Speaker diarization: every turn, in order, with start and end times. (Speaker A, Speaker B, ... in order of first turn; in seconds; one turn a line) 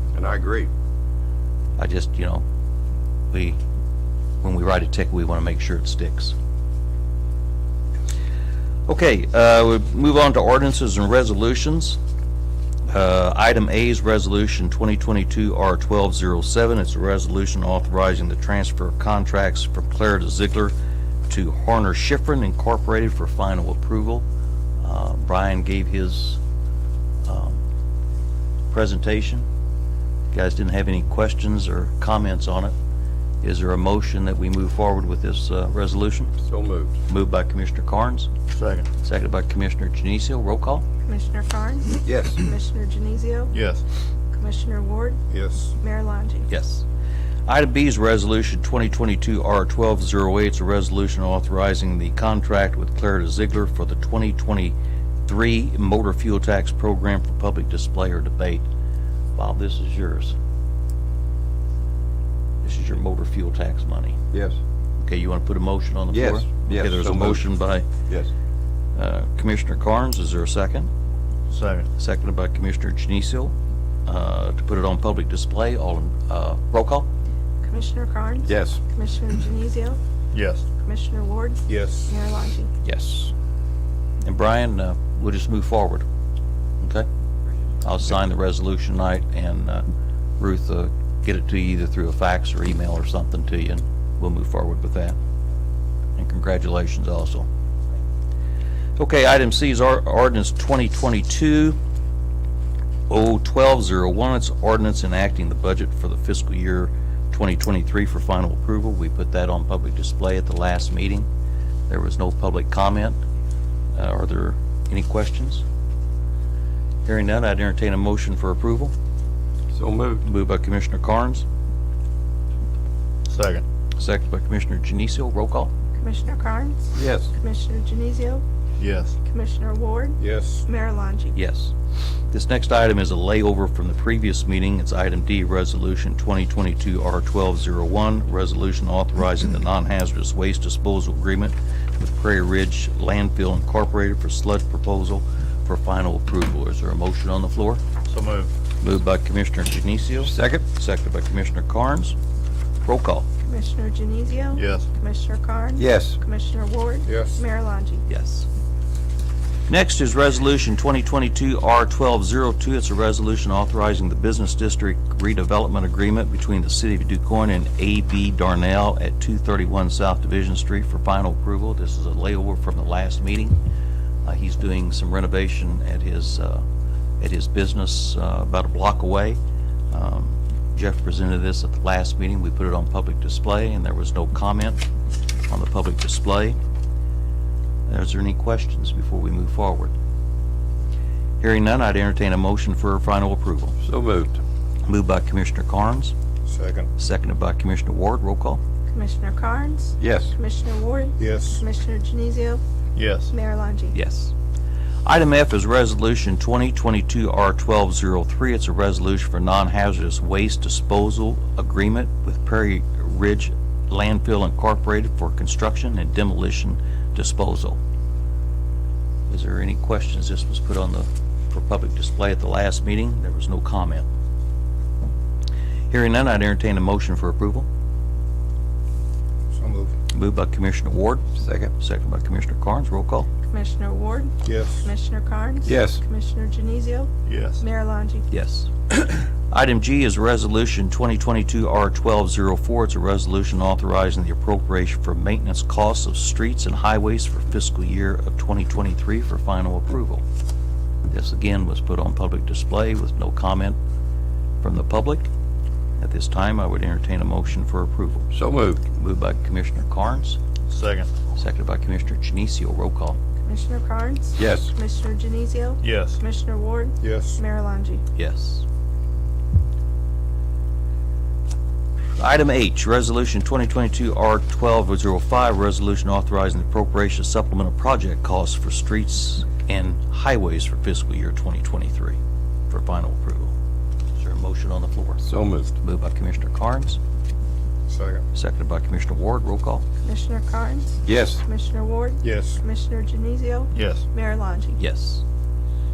Speaker A: 0.1-0.7
Speaker B: 1.8-2.4
Speaker B: 4.4-6.3
Speaker B: 8.9-12.0
Speaker B: 12.9-20.7
Speaker B: 21.3-24.2
Speaker B: 24.8-26.4
Speaker B: 27.2-27.6
Speaker B: 28.7-29.5
Speaker B: 30.3-32.7
Speaker B: 33.4-36.4
Speaker A: 36.4-36.9
Speaker B: 37.1-38.3
Speaker C: 38.5-38.9
Speaker B: 39.0-40.8
Speaker D: 41.0-43.5
Speaker A: 42.0-42.4
Speaker C: 43.5-43.8
Speaker D: 44.3-45.2
Speaker A: 45.3-45.7
Speaker D: 45.8-46.5
Speaker B: 46.5-46.8
Speaker B: 47.5-54.7
Speaker B: 55.2-58.6
Speaker B: 59.4-60.3
Speaker B: 62.6-64.2
Speaker A: 64.3-64.6
Speaker B: 65.0-67.8
Speaker A: 66.1-67.4
Speaker B: 69.0-70.9
Speaker C: 71.5-71.9
Speaker B: 72.0-73.5
Speaker B: 74.0-77.1
Speaker D: 77.6-80.0
Speaker A: 78.5-78.8
Speaker C: 80.3-80.7
Speaker D: 80.8-82.7
Speaker A: 81.7-82.1
Speaker B: 82.8-83.3
Speaker B: 84.2-86.0
Speaker B: 86.8-87.1
Speaker B: 87.8-89.8
Speaker B: 90.4-95.2
Speaker B: 96.2-97.5
Speaker B: 99.0-101.8
Speaker B: 103.1-111.3
Speaker B: 111.9-113.2
Speaker B: 113.9-115.6
Speaker B: 117.0-118.9
Speaker A: 119.7-120.2
Speaker B: 120.2-121.4
Speaker C: 123.3-123.6
Speaker B: 124.0-125.7
Speaker D: 126.0-128.4
Speaker A: 126.9-127.3
Speaker C: 128.8-129.2
Speaker D: 129.2-131.3
Speaker A: 130.2-130.6
Speaker B: 131.3-131.7
Speaker B: 132.3-147.8
Speaker C: 148.1-148.5
Speaker B: 148.8-152.2
Speaker A: 150.2-150.6
Speaker B: 152.8-153.3
Speaker D: 153.4-158.0
Speaker C: 154.5-154.9
Speaker A: 155.8-156.2
Speaker A: 157.1-157.3
Speaker B: 158.1-158.5
Speaker B: 159.7-173.6
Speaker B: 174.2-176.6
Speaker B: 177.2-179.4
Speaker B: 179.9-184.8
Speaker B: 185.5-186.6
Speaker B: 187.9-189.9
Speaker B: 191.4-193.8
Speaker A: 193.8-194.4
Speaker B: 194.9-196.1
Speaker B: 197.0-198.6
Speaker D: 198.9-202.6
Speaker A: 200.0-200.3
Speaker C: 202.9-203.3
Speaker D: 203.3-203.9
Speaker B: 203.9-204.3
Speaker B: 205.1-217.8
Speaker B: 219.3-224.1
Speaker B: 225.9-227.7
Speaker B: 230.1-233.3
Speaker A: 231.4-231.7
Speaker D: 233.5-237.1
Speaker A: 235.6-236.0
Speaker C: 237.3-237.6
Speaker D: 237.6-238.2
Speaker B: 238.3-250.2
Speaker B: 251.1-253.8
Speaker B: 254.6-255.3
Speaker B: 256.0-258.3
Speaker A: 258.3-258.8
Speaker B: 258.8-260.4
Speaker C: 260.7-261.1
Speaker B: 261.3-263.2
Speaker D: 263.4-268.0
Speaker A: 264.4-264.7
Speaker C: 265.8-266.2
Speaker A: 267.0-267.4
Speaker B: 268.1-268.6
Speaker B: 272.2-282.2
Speaker B: 282.7-283.5
Speaker B: 284.1-285.2
Speaker A: 285.2-285.7
Speaker B: 285.8-287.0
Speaker B: 288.3-289.8
Speaker D: 290.0-294.8
Speaker A: 291.0-291.4
Speaker C: 293.7-294.0
Speaker B: 294.8-295.2